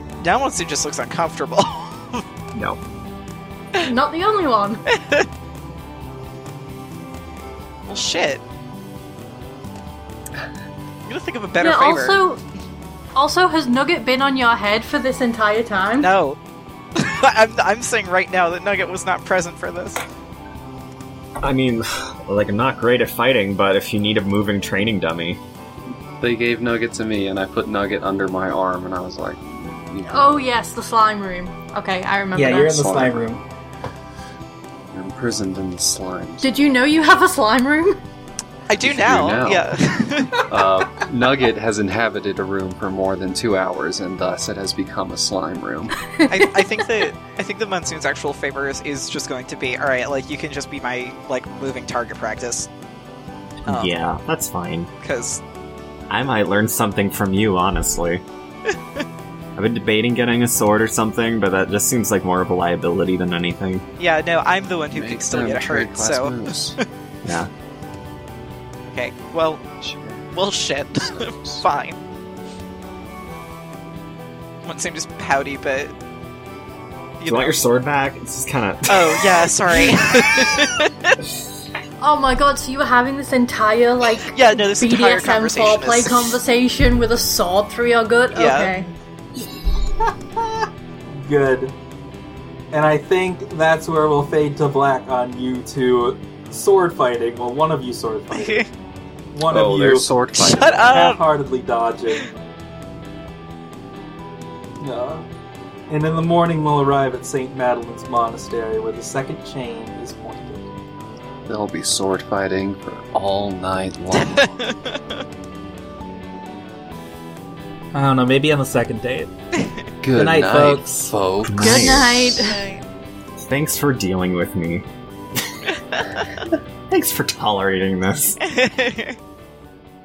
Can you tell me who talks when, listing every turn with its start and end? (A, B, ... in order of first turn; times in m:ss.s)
0:00.2-0:02.2 A
0:03.8-0:04.8 B
0:07.9-0:08.4 A
0:11.0-0:12.2 A
0:11.6-0:12.4 B
0:13.1-0:16.1 B
0:16.0-0:16.4 A
0:17.0-0:20.0 A
0:21.4-0:25.4 C
0:26.2-0:30.4 D
0:30.1-0:32.9 B
0:32.3-0:33.4 E
0:32.8-0:33.4 D
0:34.9-0:36.5 D
0:36.4-0:38.0 B
0:38.7-0:40.4 A
0:38.8-0:39.7 D
0:40.5-0:45.9 D
0:46.2-0:46.8 B
0:46.3-0:52.7 A
0:53.6-0:54.9 C
0:53.7-0:53.9 A
0:55.0-0:55.4 A
0:56.1-0:58.2 C
0:59.6-1:03.8 C
1:04.0-1:06.5 A
1:04.9-1:06.8 D
1:08.9-1:09.6 A
1:09.8-1:10.4 D
1:10.3-1:12.0 A
1:10.9-1:11.6 D
1:14.6-1:15.9 A
1:17.2-1:17.6 A
1:17.2-1:19.4 C
1:18.9-1:21.1 A
1:22.0-1:28.9 B
1:24.3-1:26.2 A
1:28.3-1:28.7 A
1:31.2-1:31.8 E
1:32.7-1:38.7 E
1:38.3-1:38.7 A
1:39.3-1:40.2 E
1:39.5-1:40.9 D
1:40.4-1:41.2 A
1:40.9-1:42.4 E
1:44.8-1:45.3 E
1:45.9-1:50.7 E
1:51.4-1:54.5 D
1:54.1-1:55.2 A
1:57.9-1:59.3 E
2:00.0-2:02.4 D
2:00.1-2:01.1 E
2:01.4-2:02.2 C
2:01.6-2:02.7 B
2:02.4-2:02.8 A
2:03.4-2:04.9 C
2:05.9-2:06.2 A
2:06.9-2:08.4 C
2:08.4-2:09.2 A